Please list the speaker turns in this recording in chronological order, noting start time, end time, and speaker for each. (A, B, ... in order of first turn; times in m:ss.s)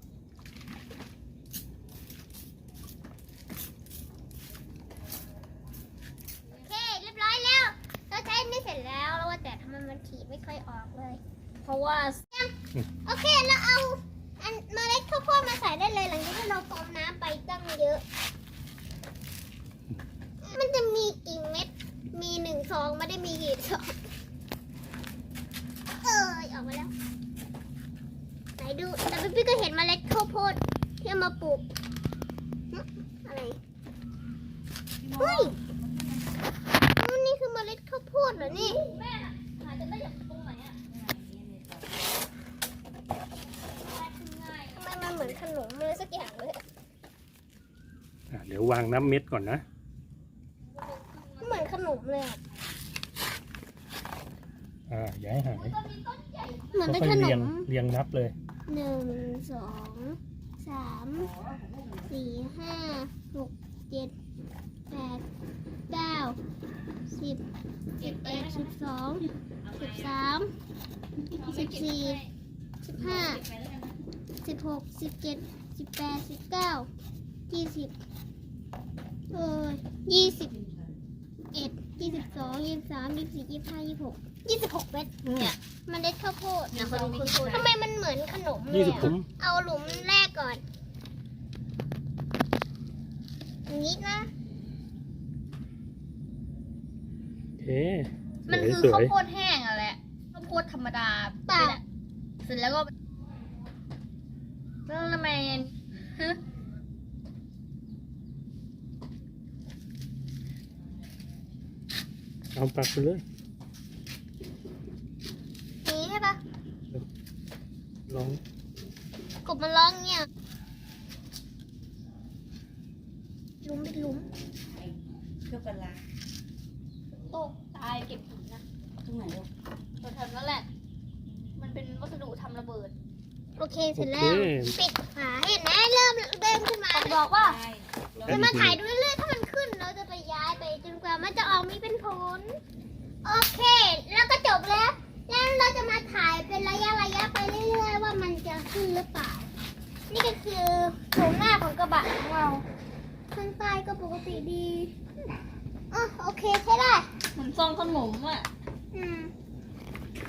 0:06.6-0:11.2 A
0:11.6-0:12.2 B
0:13.0-0:18.0 A
0:20.4-0:24.0 A
0:26.0-0:26.9 A
0:28.6-0:31.6 A
0:32.7-0:33.6 A
0:35.0-0:36.3 C
0:35.2-0:35.6 A
0:37.0-0:38.8 A
0:38.4-0:40.8 B
0:40.9-0:41.9 C
0:43.7-0:45.2 B
0:44.8-0:46.6 A
0:48.3-0:49.6 D
0:50.6-0:51.8 B
0:51.4-0:52.4 A
0:54.9-0:55.8 D
0:55.5-0:57.0 B
0:56.7-0:57.7 A
0:56.9-0:58.4 D
0:58.7-1:01.3 A
1:01.2-1:02.2 C
1:02.1-1:04.1 A
1:04.9-1:05.2 A
1:05.9-1:06.4 A
1:07.1-1:07.4 A
1:08.0-1:10.5 A
1:08.0-1:08.7 B
1:09.6-1:10.2 C
1:11.4-1:12.3 B
1:11.4-1:12.2 A
1:12.8-1:13.4 A
1:13.0-1:14.0 C
1:14.4-1:16.9 A
1:17.5-1:17.9 A
1:19.3-1:20.5 A
1:20.5-1:21.0 C
1:21.5-1:25.1 A
1:22.0-1:22.6 C
1:25.9-1:30.6 A
1:26.7-1:27.7 C
1:26.8-1:27.4 B
1:28.7-1:29.3 D
1:33.7-1:34.3 A
1:37.6-1:39.1 D
1:38.5-1:41.8 B
1:41.5-1:41.8 A
1:42.4-1:42.9 B
1:44.9-1:46.4 B
1:52.5-1:53.2 D
1:55.8-1:56.4 A
1:58.1-1:58.4 D
1:59.4-2:00.3 A
2:03.6-2:04.3 A
2:04.7-2:06.0 C
2:07.2-2:08.6 B
2:09.0-2:09.5 C
2:10.0-2:10.7 B
2:11.6-2:12.9 B
2:13.6-2:17.2 A
2:14.0-2:14.8 D
2:16.9-2:17.6 B
2:17.3-2:18.4 C
2:18.2-2:18.8 D
2:18.3-2:22.6 A
2:23.2-2:29.5 A
2:30.1-2:32.6 A
2:33.3-2:34.9 A
2:35.9-2:37.1 A
2:37.3-2:38.5 B
2:38.9-2:39.3 A